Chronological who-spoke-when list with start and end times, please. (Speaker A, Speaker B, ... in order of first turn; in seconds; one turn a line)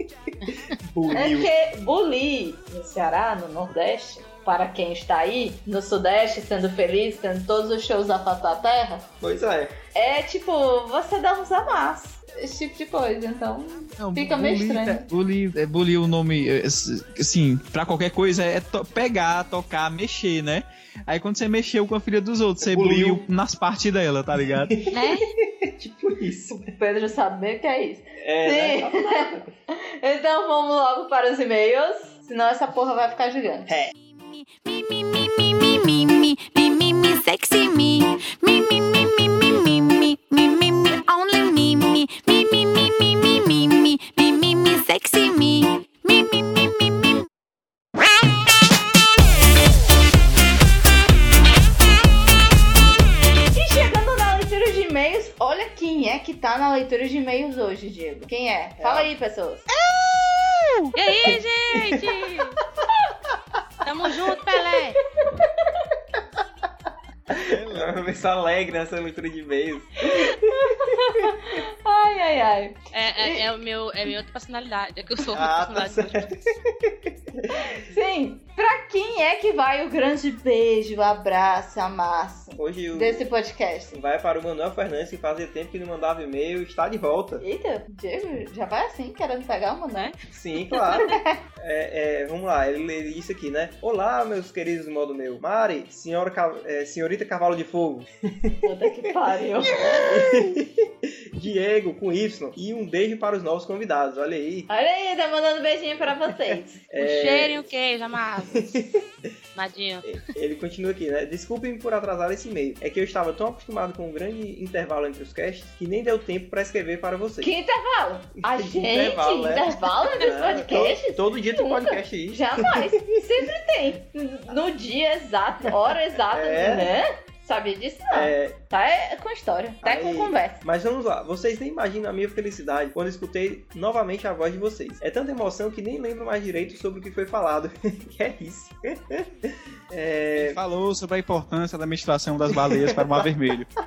Speaker A: 0.7-1.5
Speaker B: 1.1-9.1
Speaker A: 9.2-9.7
Speaker B: 9.9-15.1
Speaker C: 14.0-24.7
Speaker A: 22.6-23.2
Speaker A: 24.7-26.7
Speaker D: 24.9-25.3
Speaker B: 26.7-33.7
Speaker A: 28.2-29.5
Speaker E: 34.0-47.2
Speaker B: 53.5-59.6
Speaker A: 58.8-59.1
Speaker C: 59.8-60.9
Speaker D: 60.9-62.6
Speaker A: 61.3-62.0
Speaker D: 63.8-65.0
Speaker A: 67.3-71.1
Speaker C: 67.3-68.1
Speaker B: 70.0-73.4
Speaker D: 72.9-76.3
Speaker A: 75.3-77.7
Speaker B: 77.5-84.0
Speaker A: 82.6-83.3
Speaker A: 83.9-87.4
Speaker B: 87.4-90.1
Speaker A: 90.3-98.5
Speaker B: 90.9-91.3
Speaker B: 98.6-100.1
Speaker A: 99.7-104.7
Speaker B: 104.7-106.8
Speaker A: 106.9-107.5
Speaker D: 107.0-108.7
Speaker A: 108.5-109.0
Speaker D: 109.5-110.2
Speaker A: 110.0-117.5
Speaker B: 117.4-130.6
Speaker A: 118.5-122.9
Speaker A: 126.3-126.9
Speaker A: 128.1-128.6
Speaker A: 129.8-139.3
Speaker A: 139.9-140.6
Speaker C: 140.3-143.7
Speaker A: 142.5-143.3